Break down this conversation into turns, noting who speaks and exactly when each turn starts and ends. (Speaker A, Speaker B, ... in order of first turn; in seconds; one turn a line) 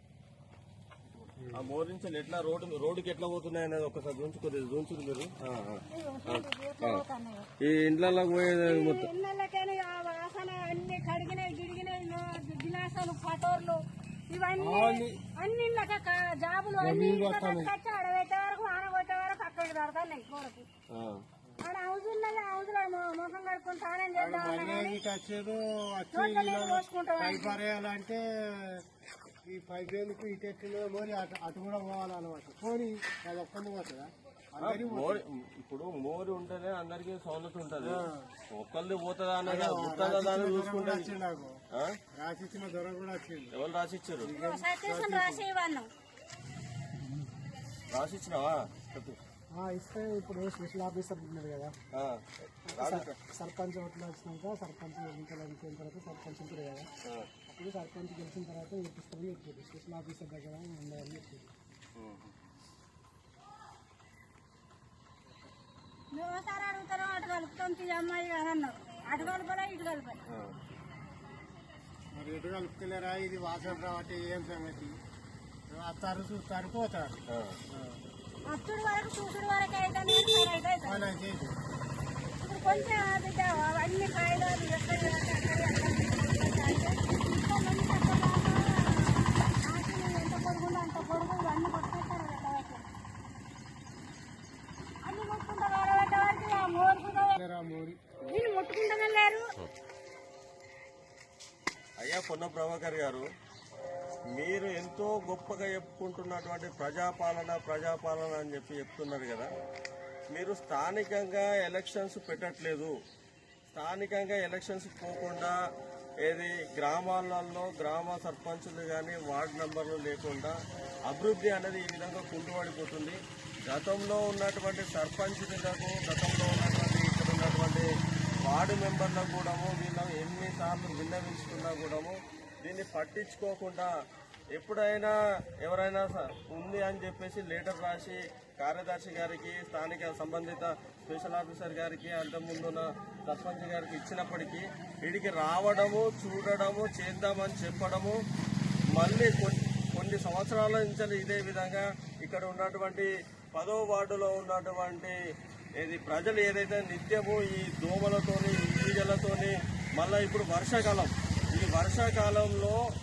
Speaker A: 1.4-1.7
Speaker B: 1.5-7.0
Speaker C: 5.9-7.5
Speaker B: 7.6-9.1
Speaker C: 8.6-20.7
Speaker A: 14.6-15.2
Speaker A: 16.8-17.7
Speaker B: 20.9-21.2
Speaker C: 21.6-25.0
Speaker A: 24.1-28.8
Speaker C: 26.1-27.6
Speaker A: 29.5-35.2
Speaker B: 34.6-41.1
Speaker A: 37.8-38.3
Speaker A: 39.4-41.6
Speaker A: 42.2-43.5
Speaker B: 43.5-44.3
Speaker A: 44.2-45.4
Speaker C: 44.3-45.9
Speaker B: 47.9-49.2
Speaker A: 49.6-51.7
Speaker B: 51.9-53.2
Speaker A: 52.8-56.9
Speaker A: 57.5-61.5
Speaker B: 62.0-62.3
Speaker C: 66.1-70.2
Speaker B: 70.3-70.6
Speaker A: 72.2-75.0
Speaker A: 75.7-78.0
Speaker B: 77.3-77.6
Speaker C: 78.5-81.1
Speaker A: 80.8-81.6
Speaker C: 82.4-92.9
Speaker C: 95.0-97.4
Speaker A: 97.3-98.0
Speaker C: 98.2-99.5
Speaker B: 102.0-103.2
Speaker B: 104.3-109.5
Speaker B: 110.3-112.9
Speaker B: 113.7-115.5
Speaker B: 116.2-120.5
Speaker B: 121.1-127.9
Speaker B: 128.5-133.9
Speaker B: 134.5-148.2
Speaker B: 149.0-155.2
Speaker B: 155.8-162.8